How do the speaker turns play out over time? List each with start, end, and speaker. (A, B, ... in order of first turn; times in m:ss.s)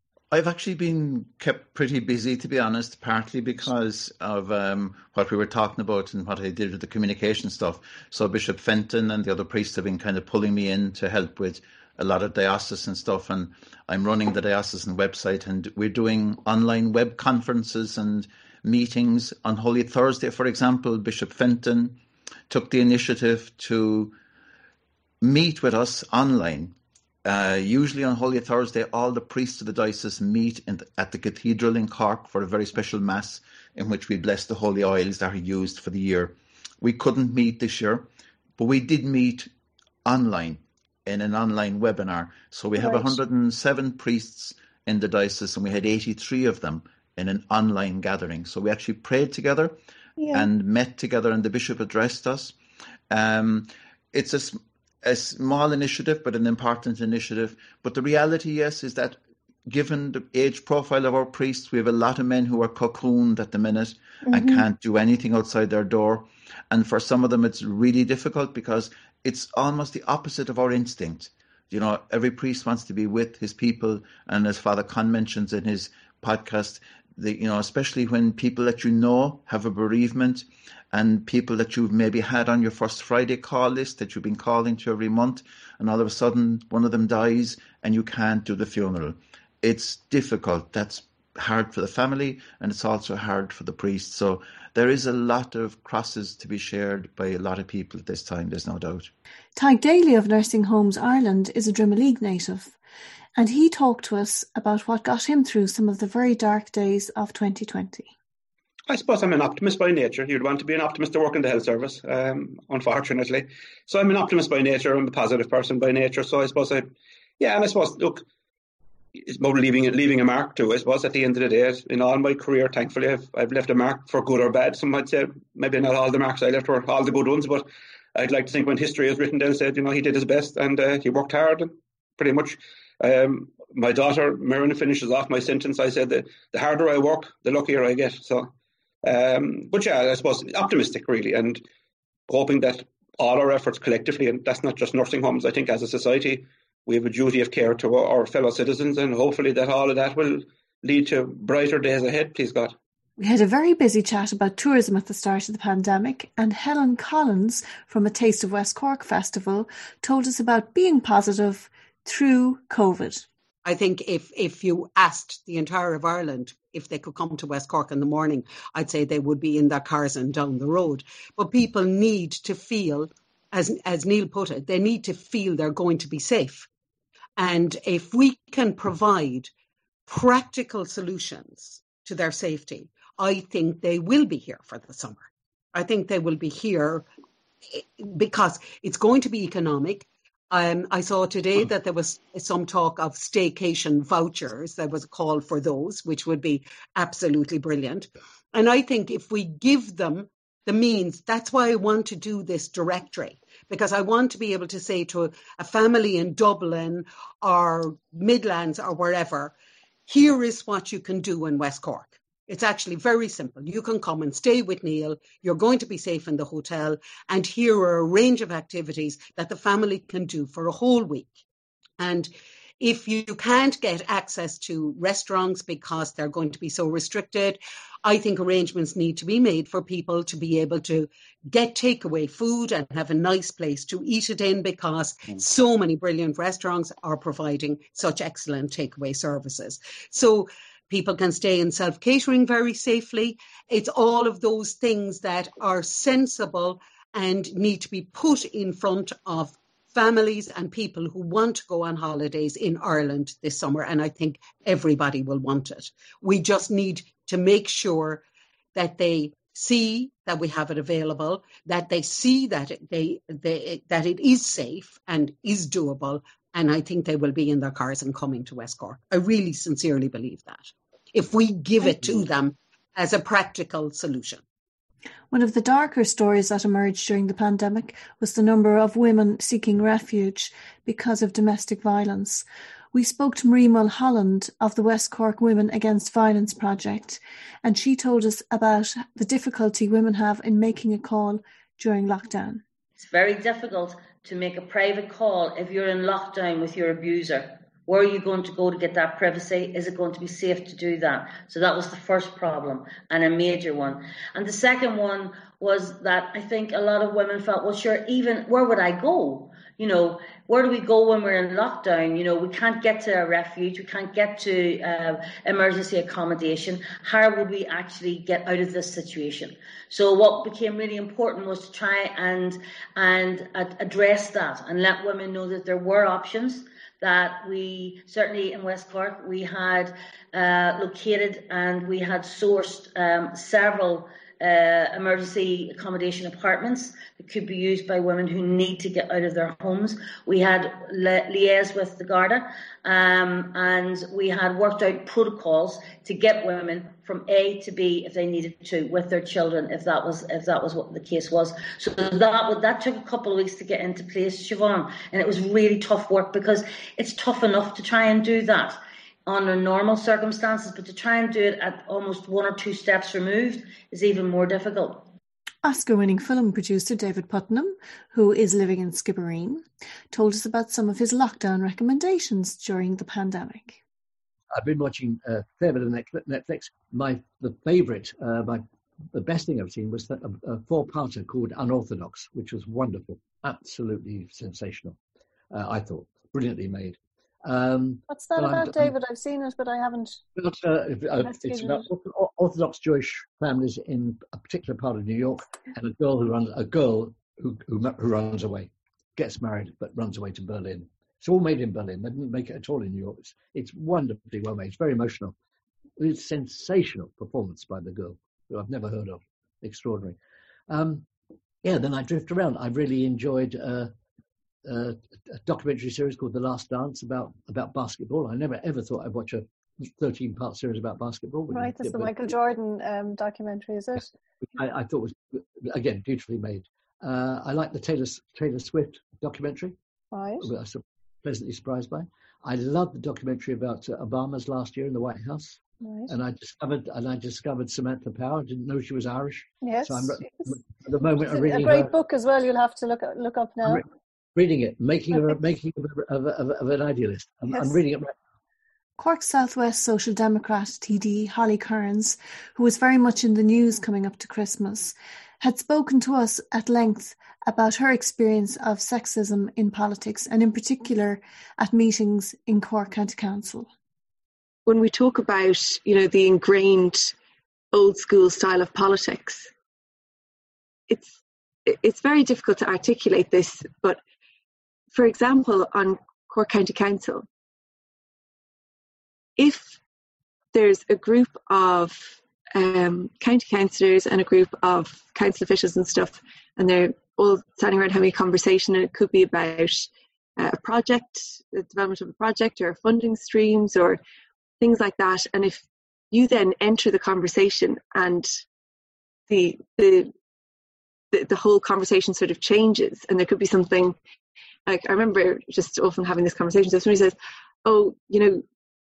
0:00.3-0:22.0 A
0:22.5-0:24.1 A
0:25.2-0:26.7 A
0:27.2-0:38.1 A
0:38.6-0:39.5 A
0:40.0-0:49.8 A
0:50.3-0:52.6 A
0:53.1-1:39.1 A
1:39.6-1:42.8 B
1:43.4-1:48.1 B
1:48.9-1:58.2 C
1:59.2-2:18.5 C
2:19.0-2:21.6 C
2:22.3-2:32.7 C
2:33.2-2:43.2 B
2:43.6-2:56.7 D
2:57.4-2:59.5 D
3:00.1-3:07.0 D
3:07.7-3:29.5 D
3:30.1-3:41.4 D
3:42.0-4:18.2 D
4:18.7-4:34.4 D
4:35.3-4:52.6 B
4:53.0-6:05.1 E
6:05.6-6:13.8 B
6:14.5-6:25.0 F
6:25.5-6:29.0 F
6:28.1-6:30.1 B
6:30.4-6:45.3 F
6:46.0-6:50.2 F
6:50.7-6:51.0 F
6:51.6-6:53.9 F
6:54.6-7:02.4 F
7:01.6-7:04.0 B
7:04.0-7:09.8 F
7:10.1-7:10.4 B
7:10.4-7:22.0 F
7:19.7-7:20.0 B
7:21.5-7:23.8 B
7:23.6-7:28.1 F
7:29.0-7:43.7 B
7:44.6-7:47.1 G
7:47.7-7:49.5 G
7:50.9-7:54.0 G
7:54.9-7:57.2 G
7:59.4-7:59.8 G
8:00.5-8:14.0 G
8:14.6-8:18.3 G
8:19.3-8:20.1 G
8:21.1-8:24.0 G
8:24.7-8:28.4 G